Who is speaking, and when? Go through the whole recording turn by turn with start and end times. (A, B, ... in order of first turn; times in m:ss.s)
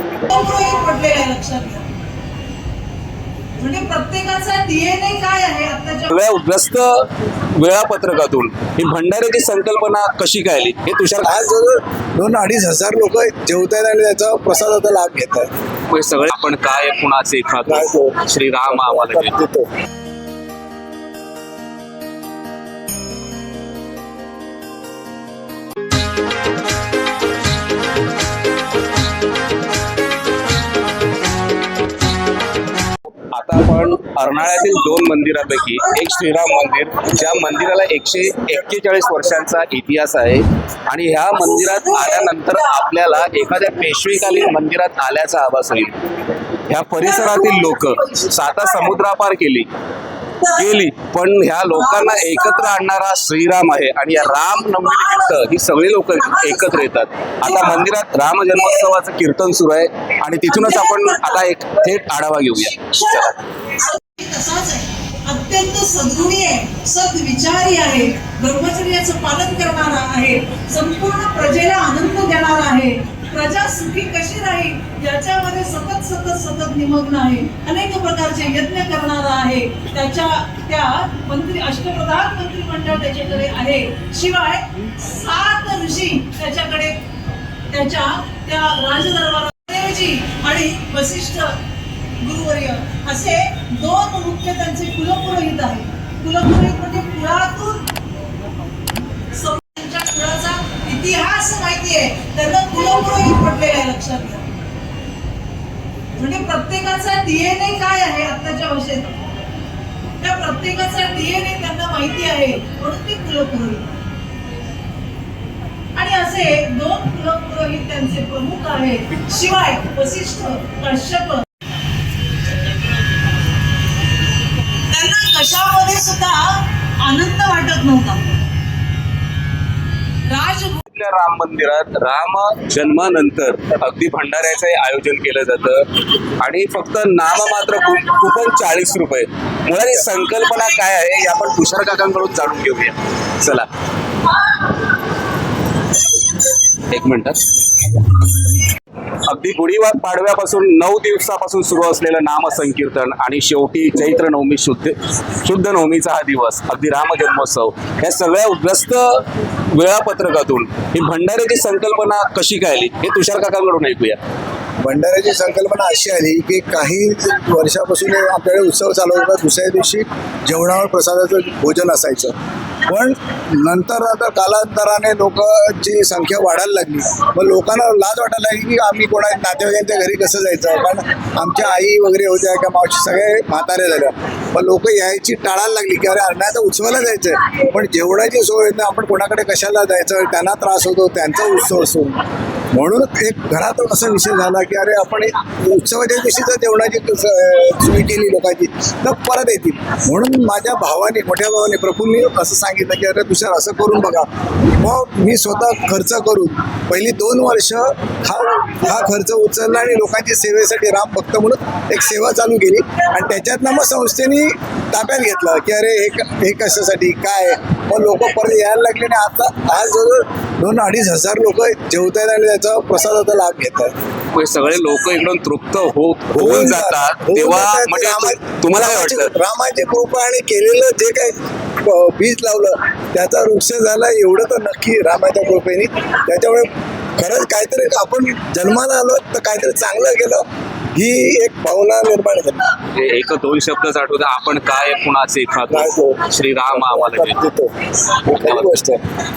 0:00.3-0:01.9 A
0:03.6-0:06.3 A
0:06.1-0:11.4 B
0:11.2-0:15.5 C
0:15.9-0:19.4 B
0:17.6-0:19.7 C
0:33.3-0:49.7 B
0:47.3-0:48.0 A
0:50.4-1:03.3 B
0:51.9-0:52.5 A
0:56.3-0:56.8 A
0:57.4-0:57.8 A
1:00.5-1:01.4 A
1:02.7-1:27.0 A
1:27.7-1:31.6 A
1:32.2-1:37.8 A
1:39.3-1:44.5 A
1:46.1-1:49.2 A
1:50.2-1:54.0 A
1:55.9-2:01.4 A
2:04.7-2:08.4 A
2:10.2-2:10.8 A
2:10.9-2:23.7 B
2:26.4-2:28.5 B
2:29.1-2:44.2 B
2:44.8-3:43.9 C
3:44.3-3:49.3 B
3:46.3-4:02.7 C
4:02.9-4:07.4 B
4:05.7-4:09.0 C
4:08.1-4:08.8 B